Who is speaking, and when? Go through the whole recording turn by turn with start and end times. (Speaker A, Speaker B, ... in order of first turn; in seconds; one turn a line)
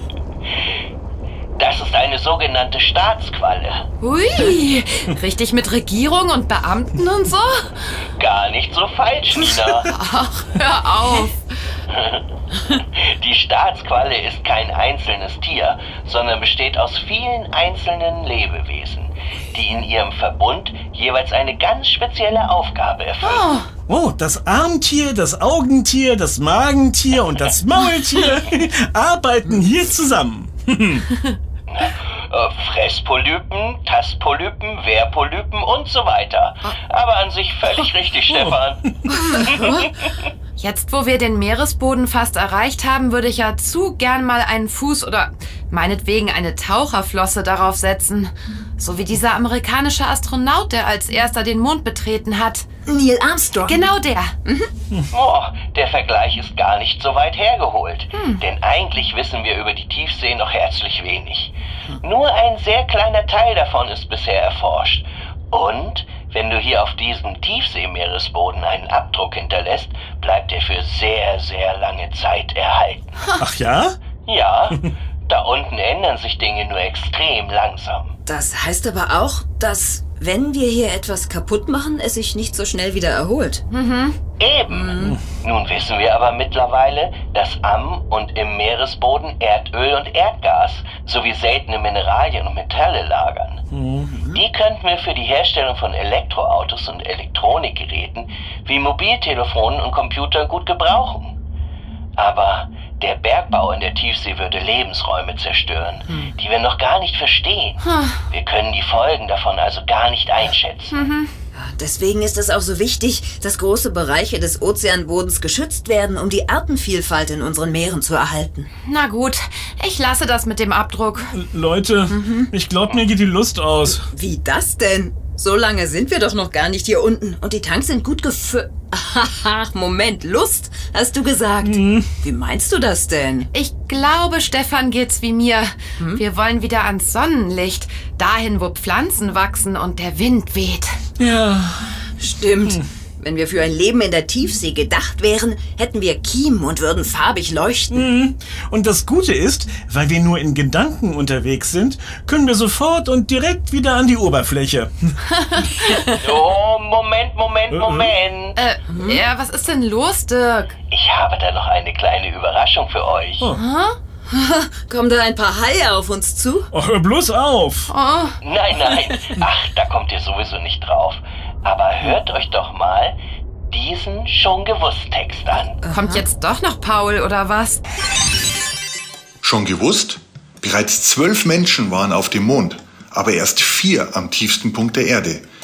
Speaker A: 1.6-3.9
Speaker B: 4.0-7.9
Speaker A: 8.2-9.9
Speaker C: 9.4-9.8
Speaker B: 9.9-11.4
Speaker A: 11.9-23.6
Speaker B: 23.2-23.7
Speaker C: 23.9-31.1
Speaker A: 31.7-40.1
Speaker D: 39.2-39.8
Speaker B: 40.6-52.7
Speaker D: 52.9-53.9
Speaker B: 53.7-54.3
Speaker D: 54.5-54.7
Speaker A: 55.1-73.2
Speaker B: 58.1-58.4
Speaker C: 73.4-74.0
Speaker A: 74.3-78.1
Speaker D: 78.3-83.6
Speaker B: 83.7-84.2
Speaker A: 84.4-93.6
Speaker D: 84.7-85.2
Speaker C: 93.7-94.1
Speaker D: 94.0-94.4
Speaker A: 94.3-101.4
Speaker A: 102.2-111.0
Speaker B: 107.8-108.2
Speaker B: 110.9-111.3
Speaker D: 111.5-118.7
Speaker B: 118.8-121.3
Speaker C: 121.3-124.0
Speaker D: 122.1-122.5
Speaker D: 124.1-133.5
Speaker C: 131.6-132.1
Speaker B: 133.5-140.9
Speaker C: 141.2-141.9
Speaker D: 142.2-148.0
Speaker C: 147.9-155.1
Speaker B: 155.3-156.1
Speaker A: 156.2-158.6
Speaker C: 157.7-158.1
Speaker B: 158.6-160.8
Speaker D: 158.9-159.2
Speaker A: 160.9-163.5
Speaker B: 163.6-164.0
Speaker D: 164.3-166.7
Speaker C: 166.7-167.9
Speaker B: 167.9-168.4
Speaker A: 168.4-173.2
Speaker A: 173.7-175.8
Speaker D: 175.8-176.2
Speaker B: 175.9-177.8
Speaker E: 179.4-185.4